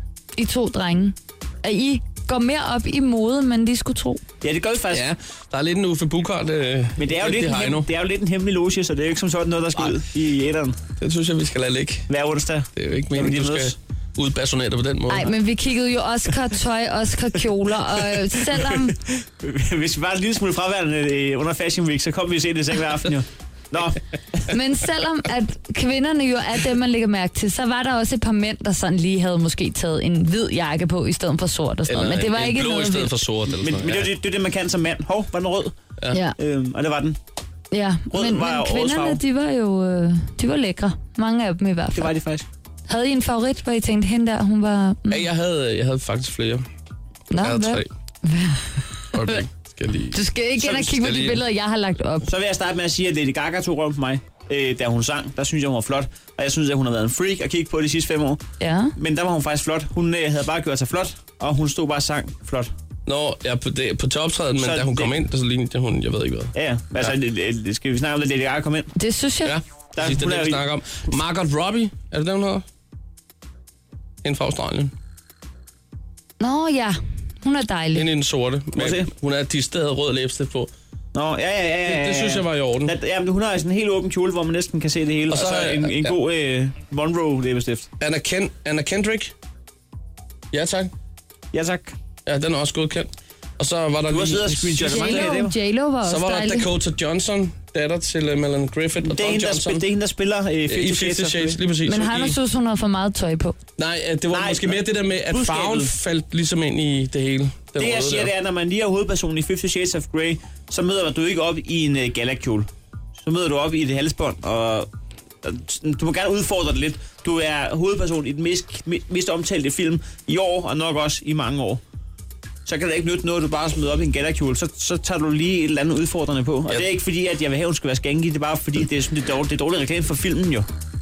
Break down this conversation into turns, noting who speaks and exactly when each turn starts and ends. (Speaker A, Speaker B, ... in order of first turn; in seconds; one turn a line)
Speaker A: 0.3-4.2
Speaker B: 4.4-5.0
Speaker C: 4.9-7.9
Speaker B: 7.0-10.8
Speaker C: 11.0-12.1
Speaker B: 12.1-13.8
Speaker C: 12.8-15.3
Speaker A: 15.1-18.9
Speaker B: 18.5-24.4
Speaker A: 24.5-33.1
Speaker C: 31.9-34.1
Speaker B: 33.5-35.8
Speaker B: 36.4-37.2
Speaker A: 37.7-42.1
Speaker B: 38.1-39.2
Speaker B: 41.9-42.5
Speaker A: 42.9-45.2
Speaker C: 45.1-46.6
Speaker A: 47.3-49.4
Speaker C: 47.4-47.9
Speaker C: 49.1-50.2
Speaker A: 50.1-52.3
Speaker B: 50.6-50.9
Speaker C: 50.7-51.4
Speaker B: 52.2-58.4
Speaker A: 58.6-58.9
Speaker B: 59.0-62.7
Speaker C: 63.0-67.1
Speaker B: 64.6-65.1
Speaker B: 66.5-68.9
Speaker A: 69.0-69.6
Speaker C: 69.4-72.6
Speaker B: 69.9-70.6
Speaker C: 74.2-74.9
Speaker A: 76.4-78.0
Speaker C: 77.9-80.7
Speaker B: 78.8-79.1
Speaker B: 81.1-87.9
Speaker C: 81.8-82.9
Speaker C: 85.3-86.2
Speaker C: 88.0-89.3
Speaker C: 90.5-90.9
Speaker B: 91.5-92.0
Speaker C: 92.2-95.3
Speaker B: 94.1-95.5
Speaker A: 94.8-96.7
Speaker C: 96.0-99.8
Speaker B: 99.0-101.6
Speaker C: 100.7-102.3
Speaker A: 101.8-103.6
Speaker C: 103.8-108.3
Speaker B: 104.3-105.9
Speaker B: 107.8-114.9
Speaker B: 115.4-121.8
Speaker B: 122.7-130.7